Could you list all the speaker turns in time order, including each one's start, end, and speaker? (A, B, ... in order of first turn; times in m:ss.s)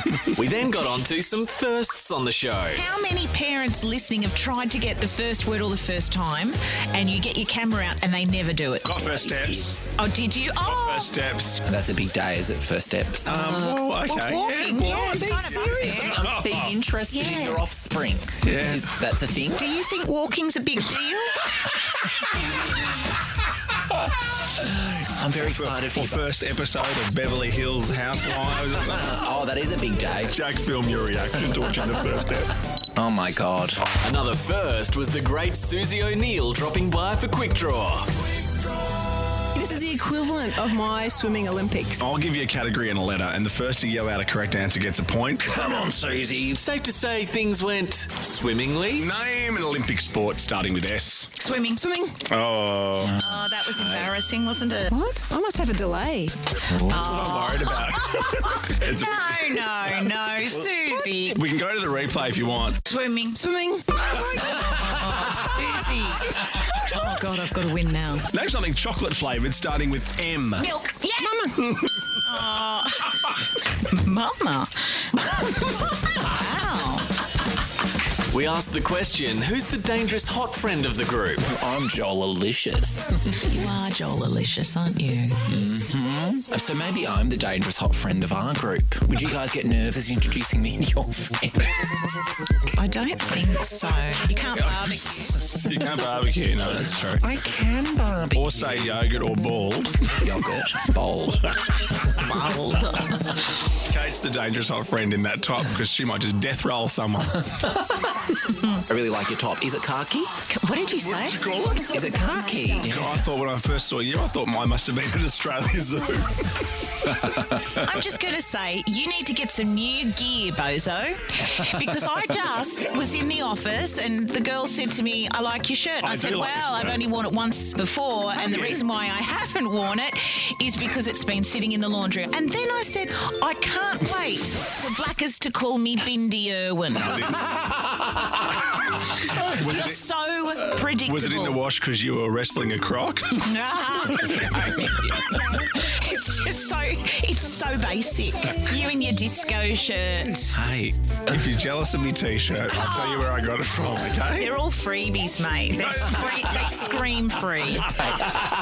0:00.3-0:02.8 A
0:02.8-0:09.3 B
0:08.8-0:09.8 C
0:09.8-0:11.1 B
0:10.6-0:11.6 C
0:11.6-0:13.3 D
0:13.3-0:16.7 C
0:13.3-0:16.2 B
0:15.6-0:19.7 D
0:17.1-0:17.7 B
0:18.4-0:18.9 C
0:19.5-0:21.5 B
0:24.6-0:26.2 D
0:25.4-0:29.1 C
0:28.9-0:30.4 D
0:30.3-0:32.5 C
0:33.0-0:33.9 D
0:34.0-0:38.1 A
0:39.5-0:42.0 E
0:42.0-0:45.7 C
0:45.6-0:46.6 D
0:46.5-0:49.1 A
0:49.0-0:51.3 C
0:51.4-0:51.9 B
0:51.8-0:52.2 E
0:52.3-0:53.2 C
0:53.0-0:54.2 D
0:53.2-0:55.2 B
0:54.9-0:56.8 E
0:56.7-1:01.4 B
0:56.8-0:59.7 C
1:01.2-1:02.8 C
1:02.8-1:03.4 B
1:03.4-1:04.0 E
1:04.0-1:08.3 B
1:08.3-1:10.7 C
1:10.6-1:11.5 B
1:11.2-1:11.6 E
1:12.1-1:15.1 B
1:16.1-1:17.1 B
1:18.3-1:21.5 A
1:21.4-1:23.5 D
1:23.4-1:25.4 B
1:25.5-1:32.3 D
1:32.8-1:35.3 B
1:34.5-1:37.2 C
1:37.2-1:38.8 D
1:38.3-1:40.3 C
1:40.1-1:41.5 D
1:42.2-1:43.3 B
1:43.8-1:47.5 C
1:48.7-1:50.3 D
1:50.5-1:51.4 B
1:51.0-1:52.0 C
1:51.9-1:53.2 D
1:52.8-1:56.7 C
1:57.5-2:17.2 B
2:06.0-2:07.1 C
2:08.4-2:08.8 C
2:17.0-2:17.6 C
2:19.2-2:21.6 B
2:19.4-2:20.0 C
2:21.1-2:23.4 C
2:23.4-2:30.6 B
2:24.3-2:25.0 C
2:30.5-2:34.6 C
2:32.7-2:33.3 B
2:34.4-2:38.2 B
2:35.8-2:36.8 C